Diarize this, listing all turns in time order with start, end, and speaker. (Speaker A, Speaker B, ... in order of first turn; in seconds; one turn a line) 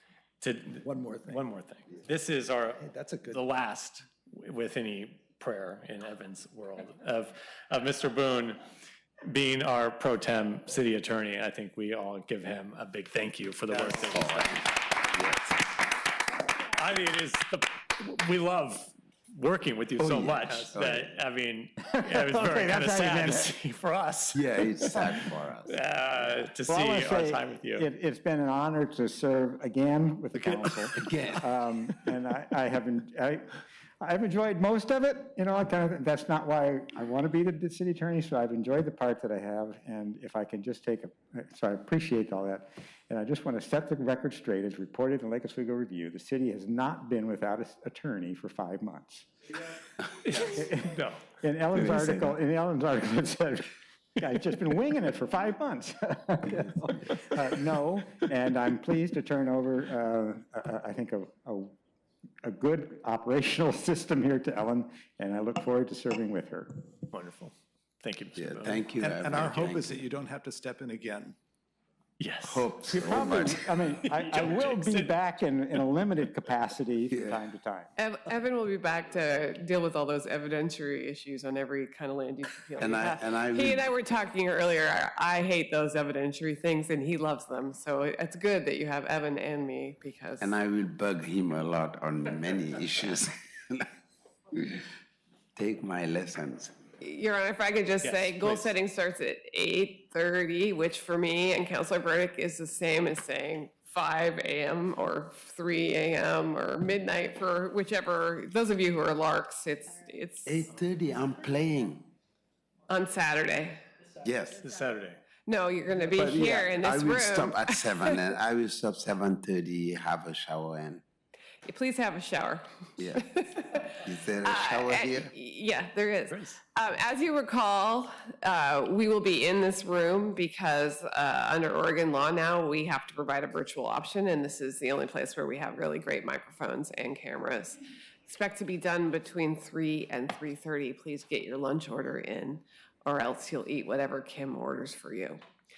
Speaker A: 0.4-8.6
Speaker B: 0.8-1.4
Speaker B: 2.8-3.4
Speaker A: 9.3-14.8
Speaker C: 14.1-14.6
Speaker C: 15.1-15.5
Speaker A: 16.7-27.9
Speaker C: 20.0-21.1
Speaker D: 21.9-23.5
Speaker C: 24.3-25.8
Speaker D: 26.7-49.3
Speaker C: 30.5-31.5
Speaker A: 50.2-51.2
Speaker D: 50.4-61.8
Speaker D: 62.4-66.9
Speaker A: 67.1-68.9
Speaker C: 68.4-70.0
Speaker B: 69.0-71.4
Speaker A: 72.2-73.3
Speaker C: 72.5-73.6
Speaker D: 72.9-77.9
Speaker A: 73.9-75.2
Speaker E: 78.0-90.6
Speaker C: 82.8-83.8
Speaker C: 90.4-93.9
Speaker C: 94.5-94.9
Speaker C: 95.6-96.8
Speaker E: 97.0-110.8
Speaker A: 98.0-98.7
Speaker C: 110.5-112.1
Speaker E: 112.9-113.8
Speaker C: 114.2-114.6
Speaker A: 114.6-115.2
Speaker E: 115.5-118.2
Speaker C: 116.1-121.0
Speaker E: 121.6-145.4
Speaker C: 123.0-123.3
Speaker C: 124.0-125.3
Speaker A: 126.3-126.6